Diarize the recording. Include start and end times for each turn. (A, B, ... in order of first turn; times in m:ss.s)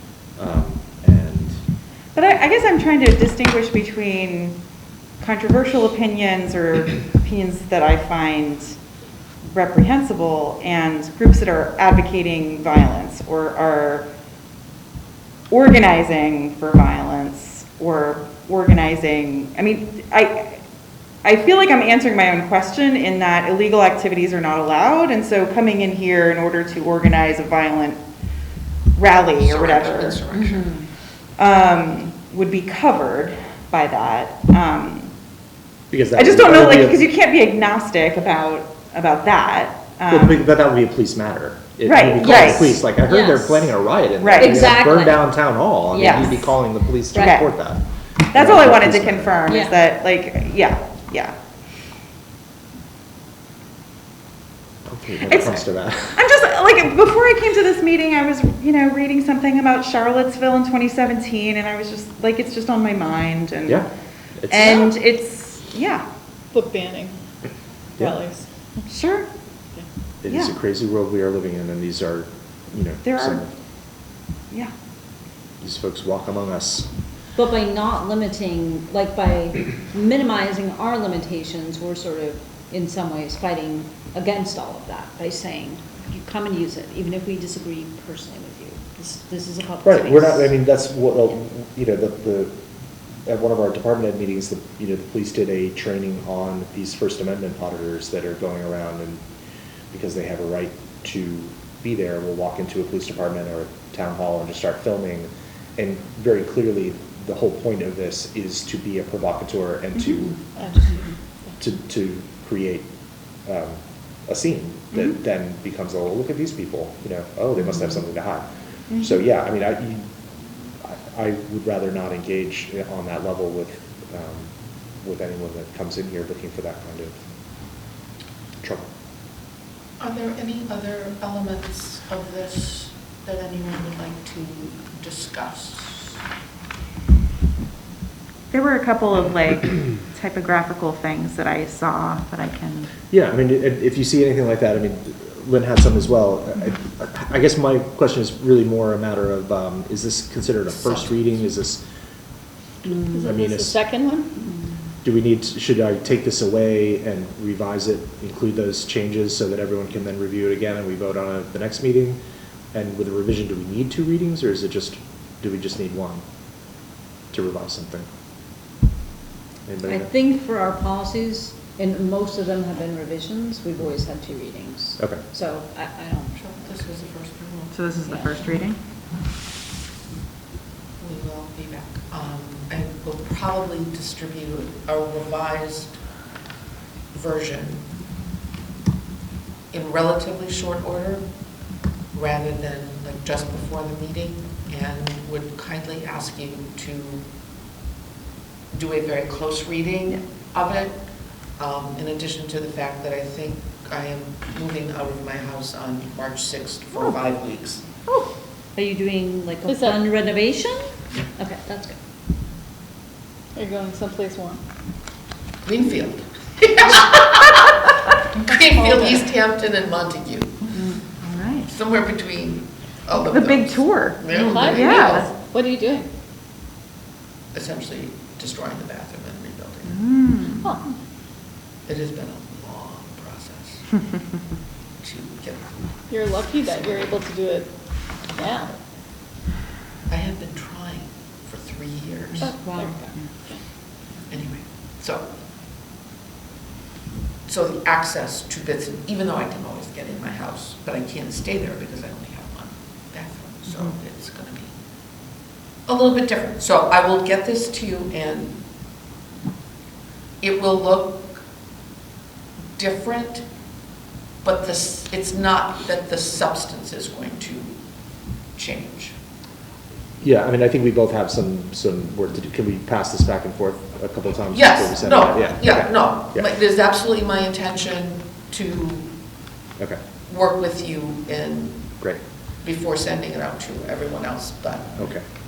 0:00.4-0:01.6 A
0:02.1-0:04.6 B
0:05.2-0:08.8 B
0:09.4-0:14.1 B
0:15.5-0:20.6 B
0:21.2-0:28.0 B
0:29.0-0:30.3 B
0:29.4-0:30.8 C
0:30.3-0:30.8 D
0:31.4-0:35.1 B
0:35.9-0:37.1 A
0:36.1-0:40.4 B
0:40.1-0:49.4 A
0:41.8-0:42.8 B
0:42.2-0:43.7 D
0:44.2-0:44.7 B
0:44.4-0:46.5 D
0:46.0-0:46.4 B
0:47.1-0:47.4 D
0:47.1-0:47.5 B
0:48.3-0:51.4 B
0:49.5-0:49.8 D
0:54.8-0:56.3 A
0:55.3-1:03.9 B
1:04.4-1:04.9 A
1:04.5-1:06.0 B
1:06.5-1:07.2 E
1:08.0-1:08.4 E
1:08.9-1:09.3 B
1:10.2-1:13.5 A
1:10.3-1:10.5 B
1:13.0-1:13.4 B
1:15.6-1:16.9 A
1:17.4-1:30.6 D
1:29.8-1:32.6 A
1:33.2-1:39.2 A
1:39.9-1:50.4 A
1:50.6-1:51.1 E
1:51.6-1:52.9 A
1:53.4-2:00.1 A
1:58.9-1:59.2 B
2:00.8-2:07.2 A
2:08.6-2:08.9 A
2:10.0-2:16.2 C
2:18.5-2:22.9 B
2:23.1-2:31.8 A
2:30.7-2:31.4 C
2:32.9-2:34.5 E
2:33.2-2:33.8 A
2:35.0-2:42.2 A
2:42.7-2:46.2 A
2:47.3-2:48.1 A
2:49.6-2:50.1 A
2:49.8-2:56.7 D
2:56.3-2:57.8 C
2:57.7-2:58.8 B
2:58.1-2:58.4 D
3:01.0-3:06.0 C
3:07.1-3:07.8 C
3:09.7-3:11.2 C
3:12.1-3:17.2 C
3:18.7-3:21.0 C
3:21.6-3:27.8 C
3:28.7-3:32.0 D
3:29.7-3:30.0 E
3:33.5-3:34.6 E
3:35.6-3:37.8 C
3:38.4-3:40.7 C
3:38.4-3:39.3 E
3:40.9-3:41.7 B
3:41.6-3:45.3 C
3:43.3-3:45.3 B
3:44.3-3:46.1 E
3:47.5-3:50.0 C
3:49.9-3:50.7 B
3:50.6-3:50.9 E
3:51.9-3:53.9 C
3:55.0-3:55.8 C
3:56.1-3:57.7 E
3:56.6-3:57.2 C
3:58.3-3:58.8 E
4:00.1-4:02.6 C
4:02.4-4:03.2 D
4:02.4-4:03.6 E
4:04.3-4:05.3 C
4:07.5-4:14.7 C
4:15.8-4:18.6 C
4:20.4-4:21.4 C
4:22.8-4:23.4 C
4:24.4-4:27.8 C
4:28.6-4:29.1 C
4:30.2-4:36.4 A
4:34.5-4:39.1 C
4:40.3-4:41.9 C
4:42.6-4:45.0 C
4:45.0-4:45.2 A